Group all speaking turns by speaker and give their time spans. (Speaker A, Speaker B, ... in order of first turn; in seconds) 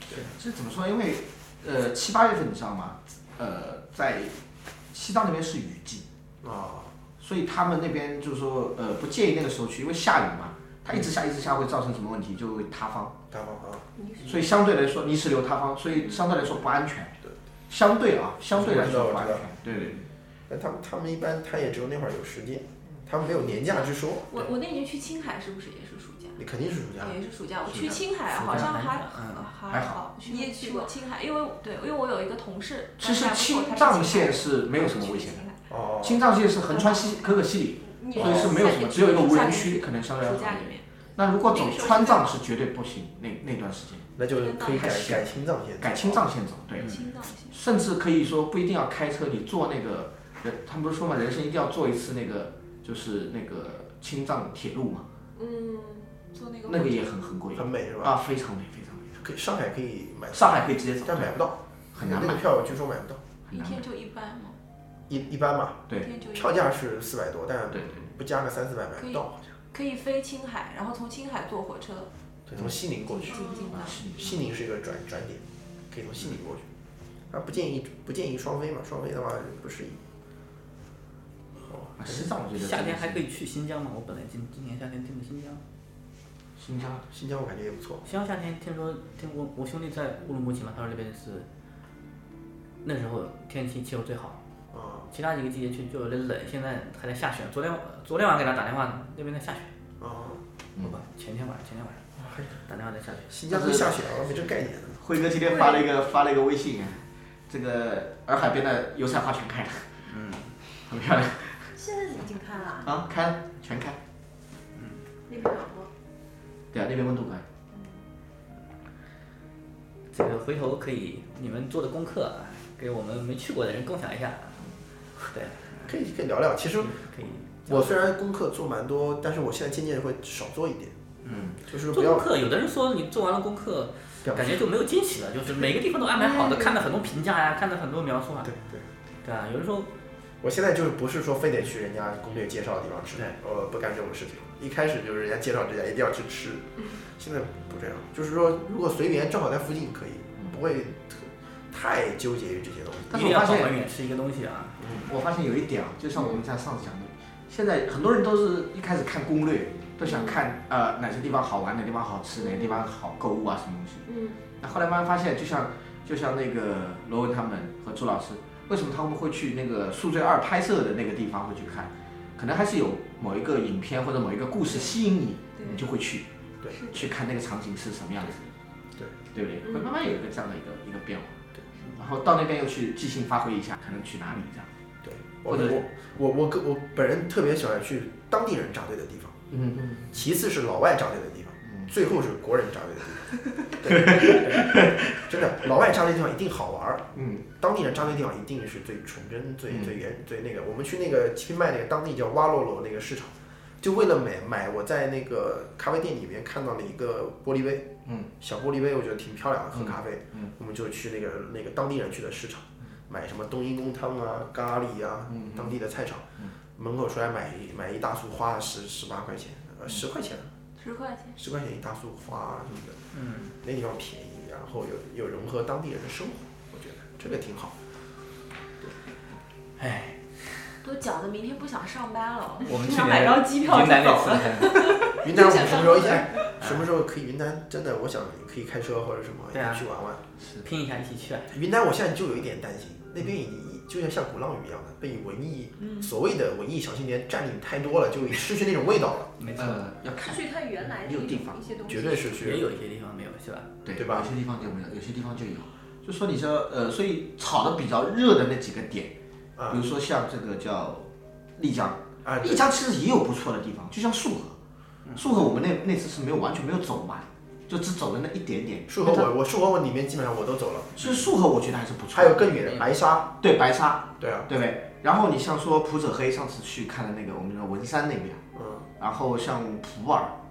Speaker A: 0.1-4.4, 4.9-6.0, 7.2-13.2, 14.2-17.1, 17.7-20.0, 27.7-28.0, 29.7-30.0, 33.0-35.5, 36.0-44.1, 44.7-45.3, 45.8-47.0, 47.5-55.0, 56.6-59.2, 60.3-61.3, 61.9-62.4, 63.5-63.8, 67.7-68.0, 73.7-74.3, 82.0-83.2, 86.6-87.0, 103.5-104.0, 105.0-109.9, 110.8-111.7, 112.8-114.0, 116.7-117.4, 131.3-131.6, 153.1-153.8, 154.8-164.1, 164.6-176.3, 176.9-178.4, 179.3-181.4, 181.9-184.7, 185.5-185.8, 189.5-190.1, 191.6-191.9, 193.8-195.4, 197.1-197.4, 209.7-210.5, 215.3-215.7, 249.6-251.6, 253.8-259.1, 259.7-264.6, 265.1-268.9, 271.0-272.7, 273.4-278.4, 279.0-280.3
Speaker B: 6.4-6.9, 13.3-13.8, 18.5-19.4, 20.5-24.5, 26.4-27.1, 35.7-36.2, 44.1-46.3, 57.5-58.2, 59.2-63.2, 65.1-69.4, 72.5-73.4, 74.2-76.6, 77.3-80.0, 81.6-82.3, 87.1-88.0, 94.7-95.1, 100.0-100.4, 102.2-102.6, 103.3-105.0, 125.8-127.0, 127.7-130.9, 131.6-132.3, 134.2-134.6, 138.4-138.8, 140.4-153.2, 185.0-189.4, 190.1-220.5, 221.3-223.0, 223.6-227.7, 235.2-240.2, 241.5-249.3, 251.9-252.7, 253.9-254.3, 259.6-259.8, 262.2-262.7, 268.9-271.2, 272.1-273.3, 274.2-274.5, 278.6-278.8
Speaker C: 14.0-14.3, 30.3-30.9, 37.8-39.6, 41.8-42.2, 55.4-56.1, 73.3-73.7, 105.5-105.8, 111.8-112.9, 115.3-115.9, 117.7-118.0, 160.1-160.4, 162.4-162.8, 164.1-164.4, 235.2-236.4, 250.2-252.4
Speaker D: 23.3-26.4, 27.0-35.5, 36.7-37.0, 39.1-40.8, 41.5-41.9, 44.3-44.9, 46.8-47.6, 56.3-57.1, 63.5-64.5, 66.0-66.6, 69.0-72.1, 73.1-74.0, 176.8-177.0, 220.8-221.4, 230.8-235.2
Speaker E: 28.3-29.5, 82.6-85.6, 88.0-91.5, 92.8-94.4, 95.1-99.7, 100.8-102.0, 102.7-103.3, 110.1-110.5, 120.1-124.6, 125.3-125.8, 126.8-128.1, 131.2-138.5, 139.2-139.9, 153.1-154.8, 223.1-223.5, 229.8-230.8, 232.6-234.9, 239.5-239.8, 240.6-241.5, 249.4-249.8, 252.4-253.7